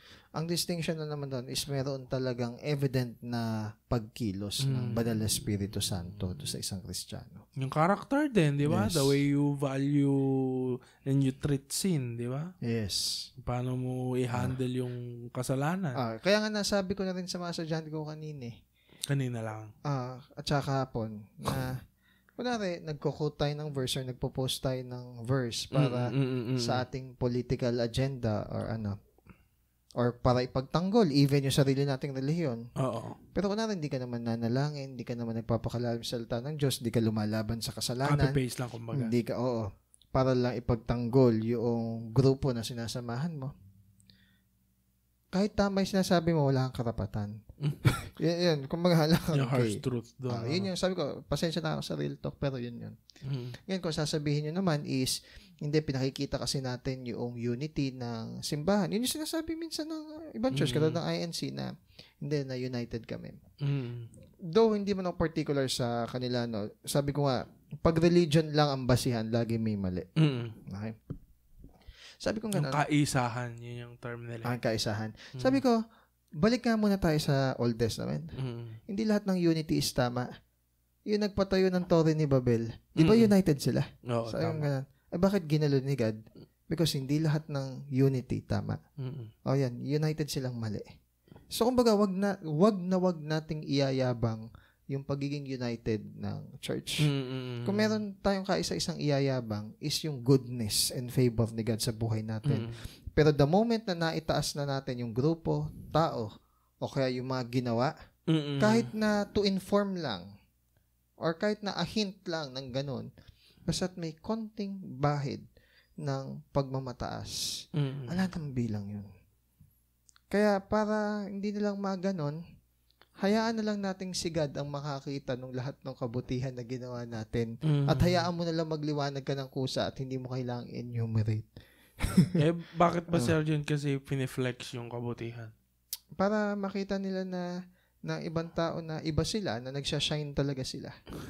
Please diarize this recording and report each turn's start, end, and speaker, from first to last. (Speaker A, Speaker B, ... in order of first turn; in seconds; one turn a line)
Speaker A: 0.3-7.4
Speaker B: 4.6-5.2
Speaker B: 7.6-12.5
Speaker A: 8.6-9.2
Speaker A: 12.6-13.3
Speaker B: 13.4-16.0
Speaker A: 16.0-18.5
Speaker B: 19.1-19.7
Speaker A: 19.8-21.8
Speaker A: 22.4-29.0
Speaker B: 25.7-26.8
Speaker A: 30.0-32.6
Speaker B: 32.8-33.2
Speaker A: 33.3-38.4
Speaker B: 38.0-39.1
Speaker A: 38.9-43.5
Speaker A: 45.3-53.0
Speaker B: 47.6-48.0
Speaker B: 49.3-50.7
Speaker B: 53.2-53.6
Speaker A: 53.6-63.4
Speaker B: 60.5-61.0
Speaker B: 63.6-64.1
Speaker A: 64.5-70.1
Speaker B: 70.2-70.6
Speaker A: 70.7-71.0
Speaker A: 72.2-72.8
Speaker B: 72.5-74.6
Speaker A: 74.5-75.8
Speaker B: 75.3-75.6
Speaker A: 76.4-78.3
Speaker B: 78.4-78.8
Speaker A: 78.9-80.3
Speaker A: 81.1-86.2
Speaker B: 83.0-83.3
Speaker B: 84.1-84.7
Speaker A: 86.7-88.8
Speaker B: 89.0-89.3
Speaker A: 89.5-90.9
Speaker A: 91.5-97.1
Speaker B: 97.0-98.0
Speaker A: 97.7-107.9
Speaker B: 102.5-102.8
Speaker B: 108.3-108.9
Speaker A: 108.6-110.2
Speaker A: 111.2-113.1
Speaker A: 113.7-115.4
Speaker A: 116.0-119.1
Speaker B: 117.8-118.2
Speaker A: 120.3-122.4
Speaker A: 123.2-131.5
Speaker B: 127.6-128.3
Speaker A: 132.0-132.4
Speaker B: 132.3-135.5
Speaker A: 136.2-137.5
Speaker A: 138.0-140.9